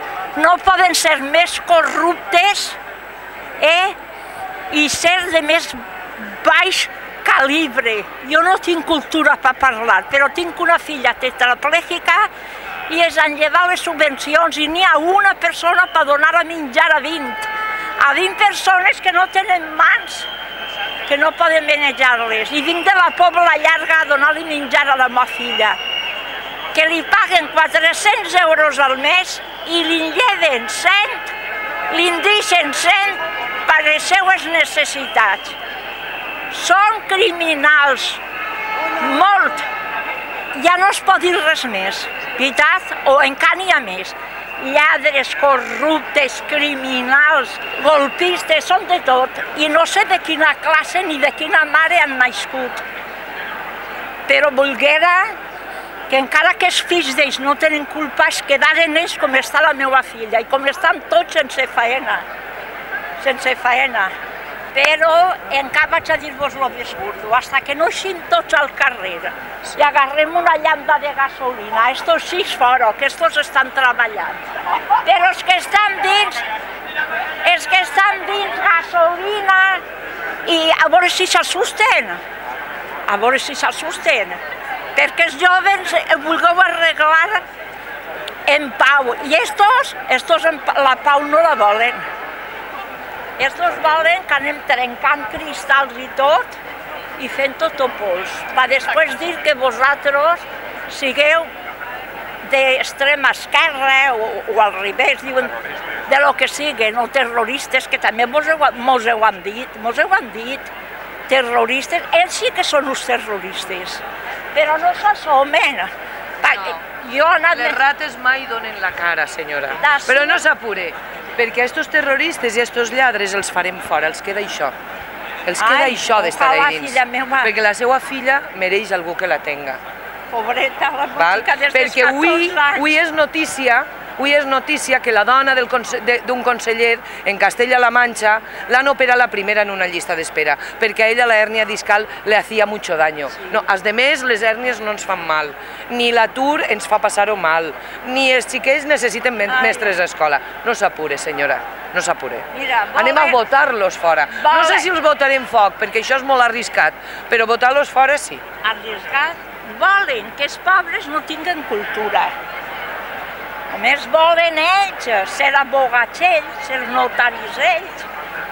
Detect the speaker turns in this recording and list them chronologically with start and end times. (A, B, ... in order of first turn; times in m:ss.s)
0:00.3-0:02.8 A
0:03.6-0:04.0 A
0:04.7-0:12.3 A
0:12.9-0:20.3 A
0:21.1-0:25.8 A
0:26.7-0:31.3 A
0:31.9-0:35.6 A
0:36.5-0:38.2 A
0:39.0-0:39.6 A
0:40.5-0:52.8 A
0:54.3-0:55.4 A
0:56.1-1:02.2 A
1:03.2-1:04.1 A
1:04.7-1:14.4 A
1:14.9-1:16.4 A
1:17.4-1:19.8 A
1:20.4-1:22.2 A
1:23.1-1:24.4 A
1:24.9-1:27.4 A
1:28.5-1:32.0 A
1:33.4-1:36.6 A
1:37.2-1:41.5 A
1:42.4-1:50.7 A
1:51.3-1:57.8 A
1:57.5-2:04.7 B
1:59.8-2:00.4 A
2:05.4-2:09.8 B
2:05.6-2:07.5 A
2:10.3-2:12.9 A
2:11.2-2:38.4 B
2:29.5-2:30.0 A
2:32.5-2:33.4 A
2:34.3-2:34.9 A
2:38.6-2:42.3 A
2:43.7-2:48.1 A